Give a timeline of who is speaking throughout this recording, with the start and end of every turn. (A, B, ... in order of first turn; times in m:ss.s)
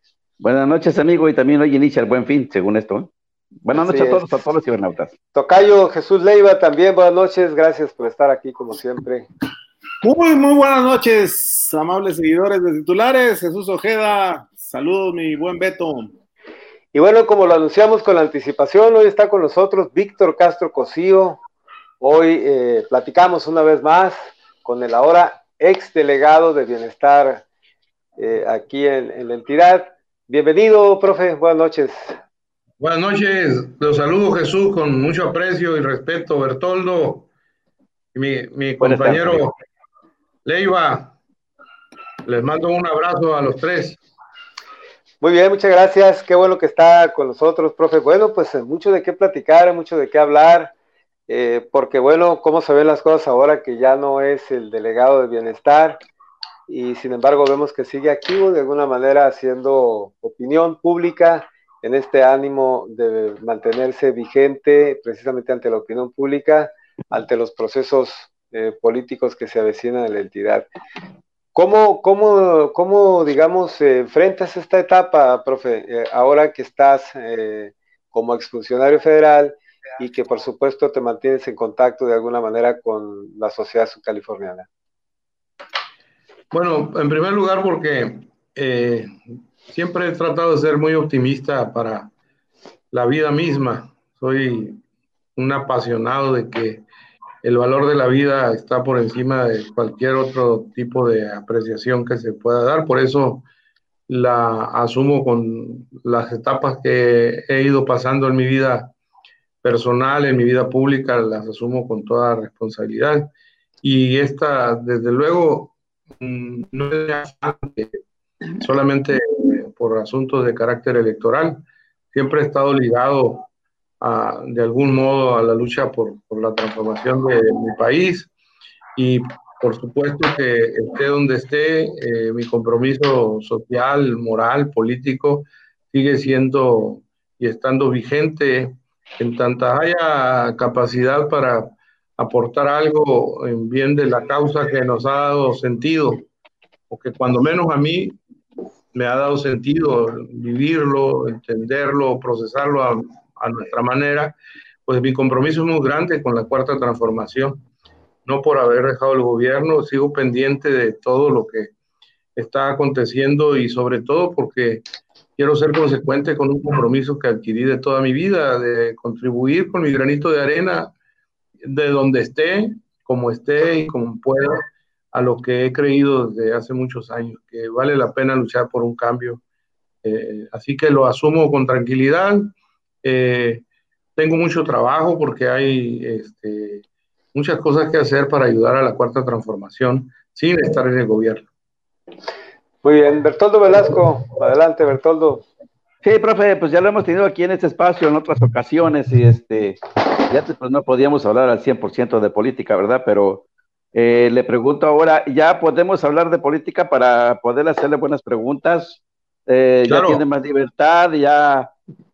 0:00.4-0:03.1 A
0:03.6-0:05.1 A
0:03.7-0:04.3 B
0:05.3-0:09.3 B
0:10.0-0:16.1 C
0:16.9-0:21.4 B
0:22.0-0:27.4 B
0:28.2-0:32.2 B
0:32.8-0:37.3 D
0:38.1-0:39.5 D
0:38.8-0:39.4 A
0:40.4-0:41.2 D
0:42.3-0:44.0 D
0:45.2-0:50.7 B
0:51.3-0:56.0 B
0:56.7-1:10.7 B
1:11.6-1:24.7 B
1:26.5-1:29.2 D
1:29.7-1:32.1 D
1:32.9-1:34.8 D
1:35.4-1:36.8 D
1:37.4-1:43.4 D
1:44.1-1:48.9 D
1:49.6-1:53.3 D
1:53.8-1:58.0 D
1:58.6-2:03.5 D
2:04.0-2:08.3 D
2:09.0-2:26.3 D
2:26.9-2:28.2 D
2:28.9-2:37.6 D
2:38.2-2:41.7 D
2:42.4-2:44.8 D
2:45.4-2:50.9 D
2:51.6-2:59.4 D
3:00.0-3:03.6 D
3:04.2-3:11.4 D
3:12.8-3:15.4 B
3:16.0-3:31.7 A
3:29.9-3:30.2 D